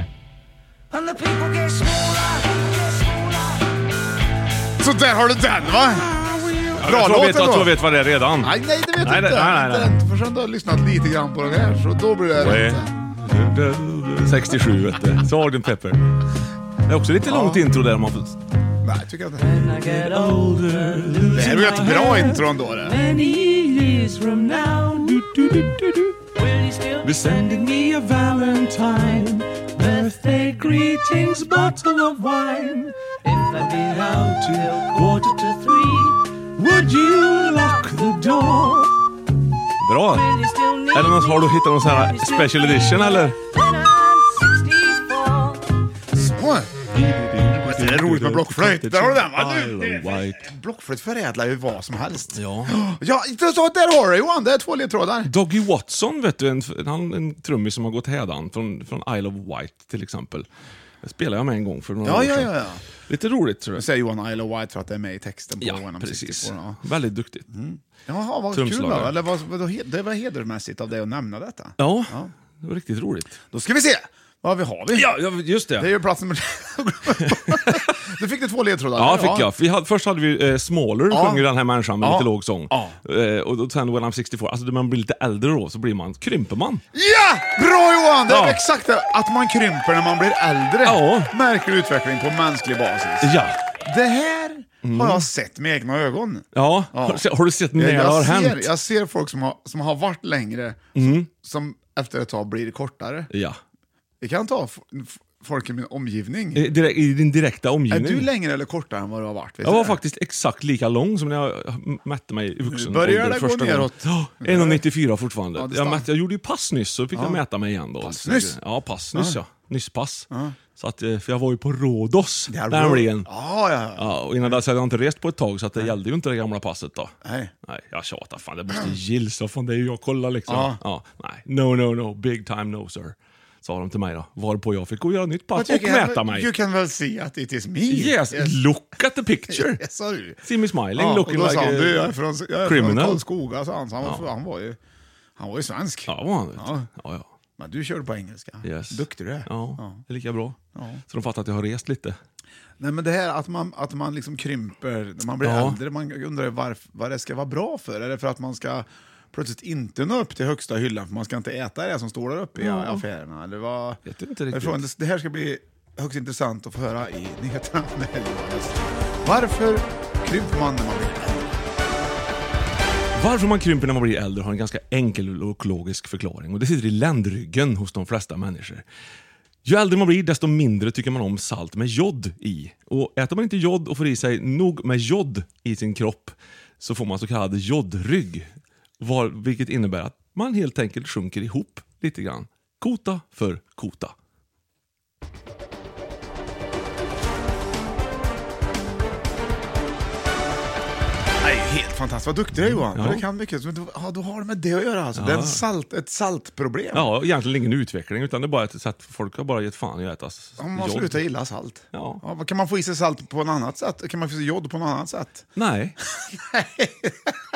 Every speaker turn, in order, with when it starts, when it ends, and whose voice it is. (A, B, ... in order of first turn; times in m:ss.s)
0:00.9-0:03.7 A
0:04.8-0:06.1 B
0:06.1-0:10.0 C
0:06.8-0:07.8 B
0:08.4-0:12.9 B
0:12.3-0:16.1 C
0:16.9-0:18.4 C
0:17.2-0:17.6 B
0:18.8-0:19.6 B
0:19.4-0:38.9 C
0:21.3-0:23.0 B
0:39.8-0:43.4 C
0:43.6-0:45.3 A
0:46.1-0:46.7 B
0:46.9-0:50.5 C
0:47.6-0:55.3 B
0:52.3-0:52.8 C
0:55.2-1:00.5 C
1:01.0-1:03.8 C
1:02.0-1:02.8 B
1:03.8-1:06.8 B
1:05.6-1:07.4 C
1:07.5-1:12.3 B
1:08.5-1:09.1 C
1:11.8-1:13.4 C
1:13.5-1:15.1 B
1:14.9-1:15.9 C
1:15.8-1:19.5 B
1:17.2-1:17.9 C
1:19.0-1:26.8 C
1:21.1-1:21.4 B
1:22.0-1:23.0 B
1:26.9-1:43.3 B
1:28.3-1:28.6 C
1:30.8-1:31.3 C
1:33.2-1:33.6 C
1:34.8-1:35.2 C
1:36.5-1:38.7 C
1:41.0-1:41.2 C
1:43.3-1:43.6 C
1:44.2-1:46.7 B
1:46.5-1:48.3 C
1:47.9-1:50.0 B
1:49.6-2:03.3 C
1:52.6-1:54.8 B
1:55.5-1:56.1 B
1:57.1-1:57.4 B
1:58.0-1:58.6 B
1:59.1-1:59.4 B
2:00.3-2:00.6 B
2:02.5-2:04.6 B
2:03.9-2:07.1 C
2:07.2-2:07.5 B
2:07.6-2:16.5 C
2:10.5-2:10.8 B
2:15.5-2:18.6 B
2:17.9-2:19.8 C
2:19.5-2:20.4 B
2:20.4-2:23.2 C
2:20.9-2:24.8 B
2:24.0-2:24.3 C
2:25.4-2:26.9 B
2:26.1-2:27.3 C
2:27.6-2:30.0 B
2:28.6-2:32.2 C
2:30.7-2:31.0 B
2:32.8-2:51.5 B
2:35.4-2:35.8 C
2:42.6-2:43.0 C
2:44.0-2:44.9 C
2:53.1-2:58.8 C
2:59.6-3:14.1 C
3:21.4-3:27.1 B
3:22.6-3:23.2 C
3:25.1-3:25.6 C
3:26.9-3:31.3 C
3:30.6-3:35.5 B
3:31.9-3:32.2 C
3:35.6-3:36.0 C
3:36.1-3:37.3 B